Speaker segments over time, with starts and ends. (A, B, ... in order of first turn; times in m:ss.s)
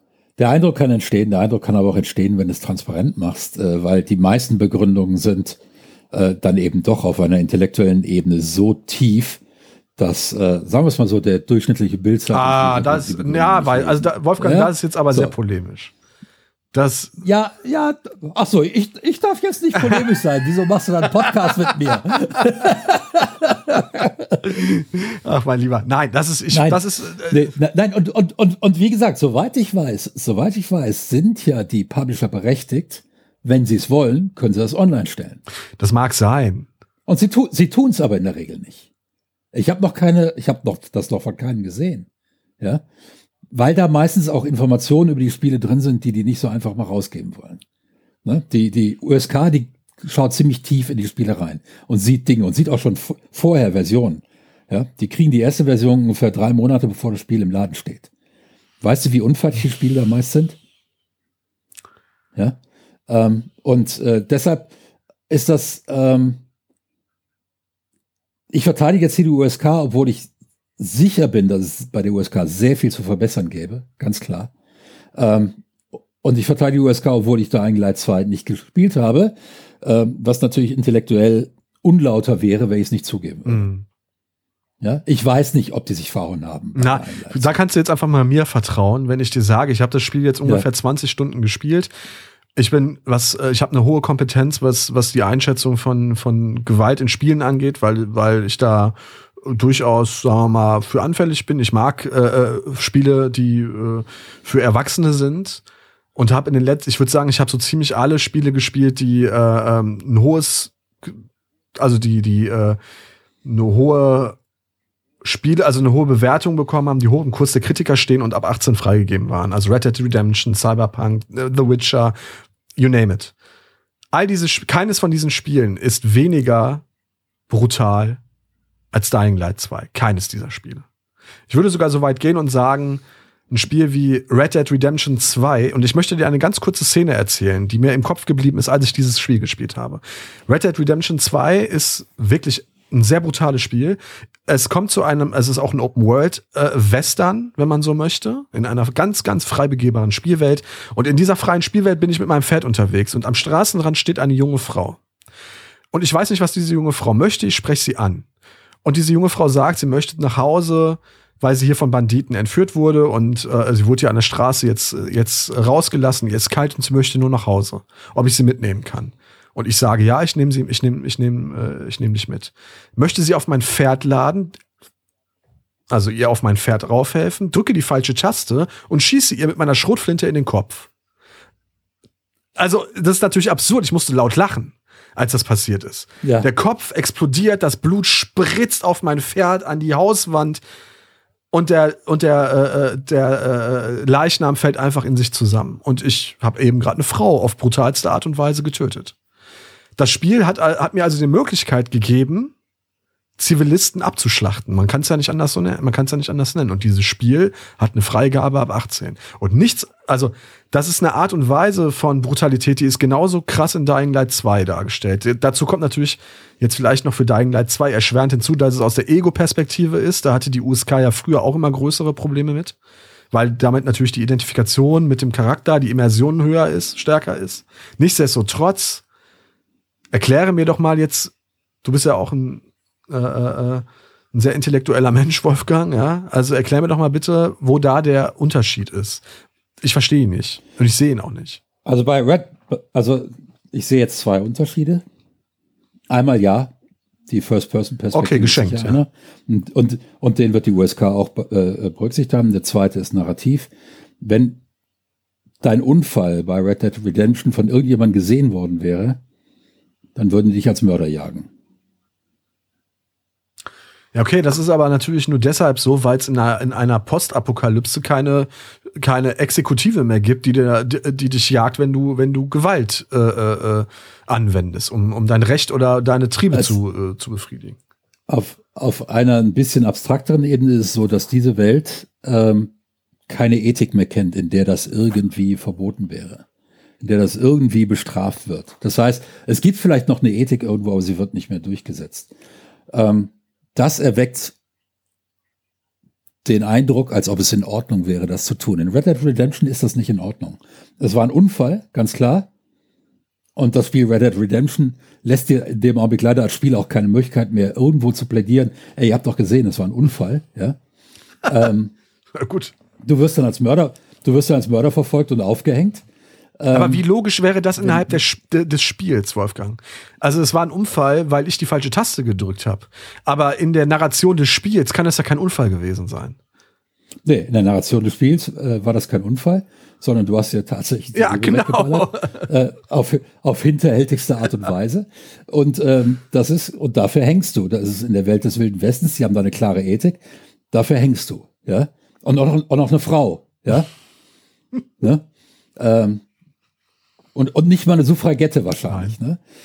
0:00.4-0:05.6 A
0:06.1-0:09.4 A
0:10.0-0:15.3 A
0:12.3-0:15.9 B
0:16.7-0:17.2 B
0:17.2-0:24.6 A
0:24.7-0:27.5 B
0:26.5-0:35.4 A
0:35.8-0:36.7 B
0:37.1-0:38.9 A
0:39.5-0:42.1 A
0:43.5-0:47.6 A
0:48.2-0:58.1 A
0:58.8-1:00.6 A
1:02.3-1:04.7 A
1:05.3-1:06.4 A
1:08.5-1:14.5 A
1:15.1-1:15.6 A
1:16.2-1:23.7 A
1:23.4-1:23.8 B
1:24.8-1:27.5 A
1:26.8-1:31.9 B
1:32.6-1:45.6 B
1:46.2-1:51.2 B
1:51.8-1:52.8 B
1:53.4-1:54.4 B
1:55.2-2:02.1 B
2:02.8-2:03.3 B
2:04.1-2:06.8 B
2:07.5-2:08.2 B
2:08.9-2:10.8 B
2:11.5-2:35.0 B
2:35.9-2:38.2 B
2:38.8-2:54.6 B
2:55.9-3:00.9 B
3:02.6-3:10.6 B
3:06.2-3:06.5 A
3:11.5-3:19.1 B
3:20.0-3:22.5 B
3:23.4-3:42.7 B
3:43.3-3:49.0 B
3:50.1-3:51.3 B
3:51.8-3:59.2 B
3:59.8-4:01.6 B
4:01.8-4:05.0 A
4:06.1-4:06.7 A
4:07.3-4:14.6 A
4:08.1-4:09.0 B
4:15.6-4:19.2 A
4:20.1-4:21.5 A
4:24.1-4:37.8 B
4:36.5-4:36.8 A
4:38.3-4:42.7 A
4:43.3-4:46.4 A
4:47.0-4:52.3 A
4:52.9-4:54.5 A
4:56.4-5:02.5 A
5:03.6-5:10.8 A
5:11.4-5:11.9 A
5:12.4-5:12.7 B
5:13.0-5:16.0 A
5:16.6-5:17.0 A
5:16.7-5:26.4 B
5:17.8-5:18.2 A
5:27.2-5:43.9 A
5:31.1-5:32.5 B
5:45.0-5:45.2 A
5:45.8-5:46.2 A
5:47.3-5:49.4 A
5:48.9-5:49.1 B